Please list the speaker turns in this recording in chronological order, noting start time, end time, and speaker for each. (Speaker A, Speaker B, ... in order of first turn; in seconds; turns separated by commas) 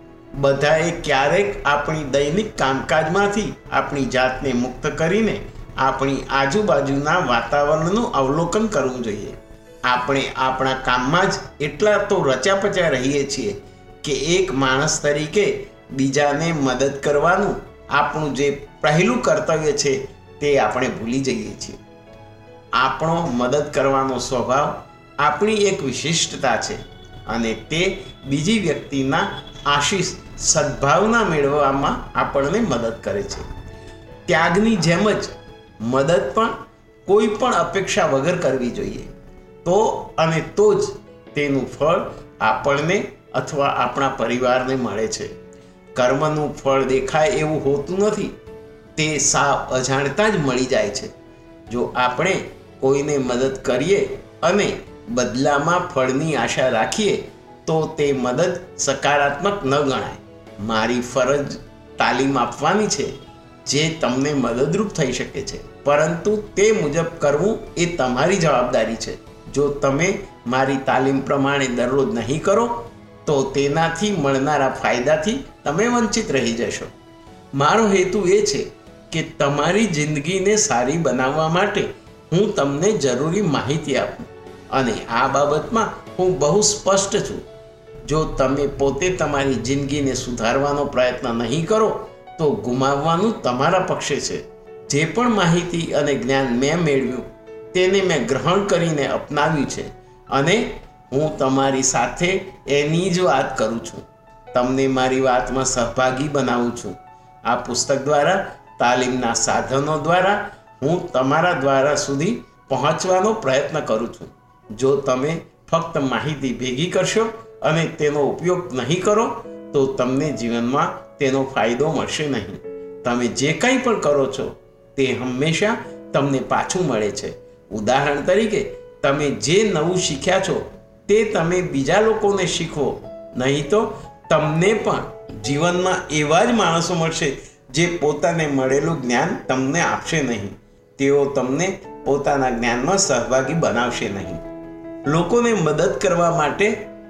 Speaker A: 0.3-21.8, Speaker A: 22.8-33.5, Speaker A: 34.3-39.1, Speaker A: 39.6-45.3, Speaker A: 45.9-48.3, Speaker A: 49.0-51.1, Speaker A: 51.7-76.9, Speaker A: 77.5-87.4, Speaker A: 88.0-144.4, Speaker A: 145.1-146.8